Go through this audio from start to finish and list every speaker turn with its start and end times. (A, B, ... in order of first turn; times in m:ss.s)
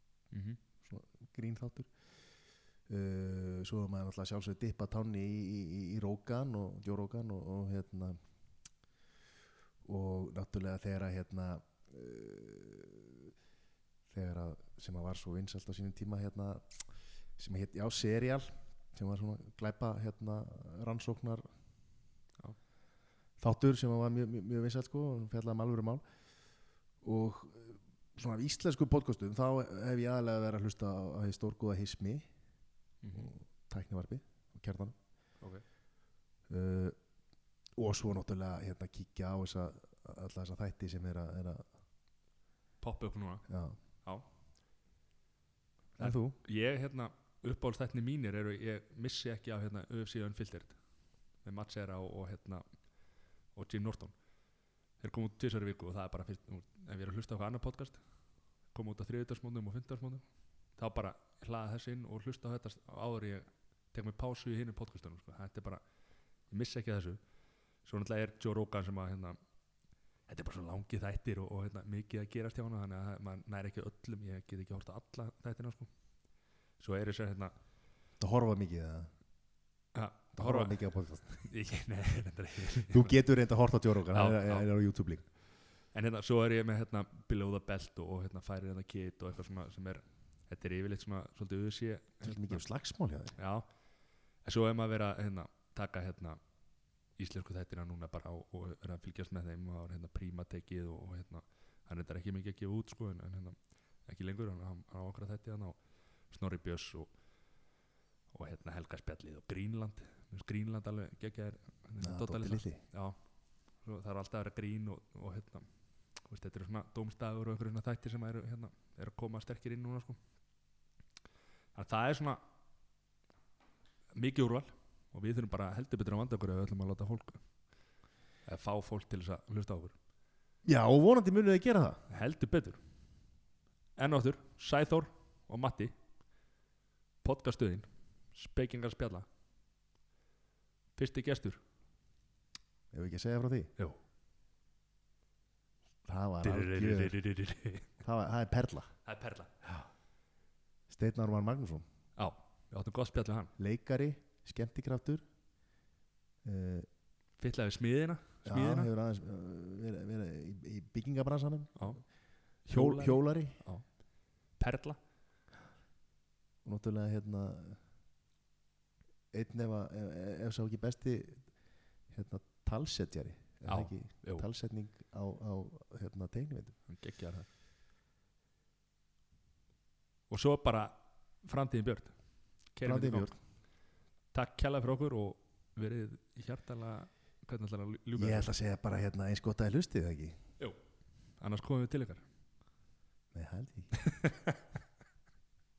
0:00.3-0:00.6 A
0:00.8-0:01.9 B
0:02.9-0:08.2 B
0:09.8-0:13.3 B
0:14.1-0:16.8 B
0:17.4-0:21.4 B
0:23.4-0:26.0 B
0:27.0-0:32.2 B
0:33.0-0:33.3 A
0:33.1-0:35.0 B
0:36.5-0:37.0 B
0:37.8-0:41.6 B
0:42.8-0:43.4 A
0:43.5-0:43.8 B
0:46.0-0:46.4 B
0:46.0-0:50.8 A
0:51.4-0:52.6 A
0:53.5-0:54.2 A
0:55.0-0:58.0 A
0:58.7-1:00.2 A
1:00.8-1:05.8 A
1:06.5-1:07.2 A
1:07.8-1:09.4 A
1:10.3-1:15.9 A
1:16.8-1:17.5 A
1:18.2-1:19.1 B
1:20.0-1:20.8 A
1:20.3-1:21.4 B
1:21.4-1:23.1 A
1:22.9-1:25.2 B
1:24.1-1:24.6 A
1:25.9-1:32.6 A
1:32.2-1:33.4 B
1:33.4-1:33.7 A
1:34.4-1:36.4 A
1:37.2-1:45.8 A
1:46.3-1:47.1 A
1:48.3-1:53.2 A
1:52.0-1:52.8 B
1:53.8-1:55.7 A
1:56.2-2:00.2 A
2:01.8-2:02.4 A
2:04.2-2:07.4 A
2:08.5-2:10.0 A
2:10.6-2:12.0 B
2:12.1-2:12.8 A
2:14.0-2:15.9 A
2:17.2-2:19.2 A
2:21.0-2:21.6 A
2:22.9-2:23.7 B
2:26.1-2:27.2 B
2:26.4-2:27.9 A
2:28.0-2:28.9 B
2:29.1-2:29.5 A
2:30.9-2:31.8 B
2:32.2-2:33.5 A
2:33.6-2:35.2 B
2:36.4-2:36.9 B
2:37.4-2:38.9 A
2:38.4-2:42.0 B
2:41.8-2:42.0 A
2:42.7-2:43.9 A
2:42.7-2:43.6 B
2:44.6-2:45.0 A
2:46.6-2:47.8 B
2:49.3-2:51.5 B
2:52.1-2:56.8 B
2:53.7-2:54.5 A
2:56.9-2:57.5 A
3:00.3-3:02.1 A
3:02.7-3:03.3 A
3:02.8-3:03.4 B
3:04.3-3:08.5 A
3:08.2-3:10.4 B
3:11.4-3:12.2 A
3:13.3-3:14.0 B
3:14.0-3:14.6 A